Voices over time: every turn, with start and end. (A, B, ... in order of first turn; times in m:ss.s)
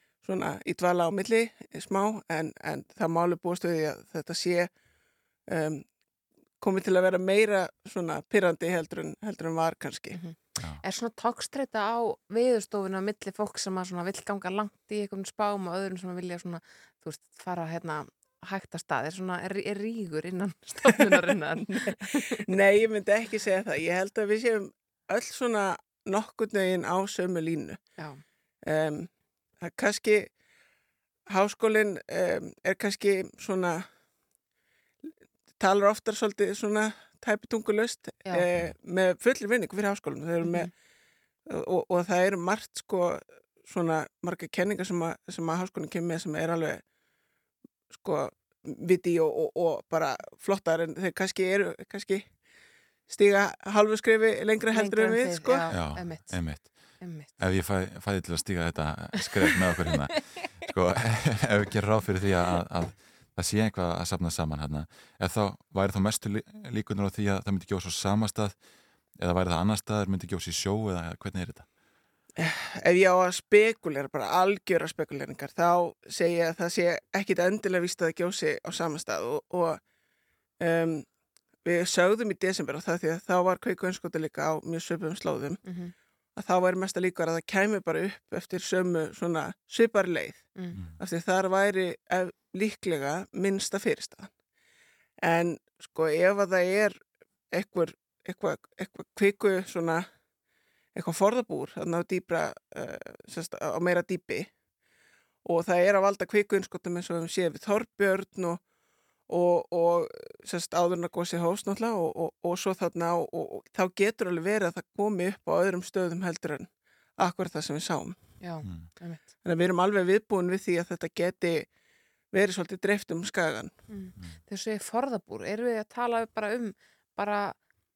0:00.2-0:04.7 A
0:05.5-0:05.9 A
0:06.6-0:10.2 A
0:10.1-0:22.4 B
0:10.6-0:10.8 C
0:22.5-0:27.8 A
0:28.0-0:28.2 B
0:28.7-0:30.3 A
0:31.3-0:33.9 A
0:35.6-0:40.7 A
0:40.4-0:40.7 B
0:41.5-0:46.8 A
0:47.9-0:52.3 A
0:53.1-0:55.7 A
0:54.7-0:57.4 B
0:55.7-1:11.7 C
1:12.4-1:19.8 A
1:20.6-1:21.1 A
1:21.6-1:25.6 A
1:25.6-1:25.9 B
1:26.4-1:30.5 A
1:30.6-1:30.8 B
1:30.7-1:31.0 C
1:31.0-1:34.3 A
1:35.2-1:40.1 A
1:41.0-1:44.5 A
1:45.4-1:48.6 A
1:49.3-1:58.2 A
1:58.4-1:59.2 B
1:58.6-1:58.9 C
1:59.4-2:01.7 A
2:02.3-2:03.7 A
2:03.9-2:07.6 B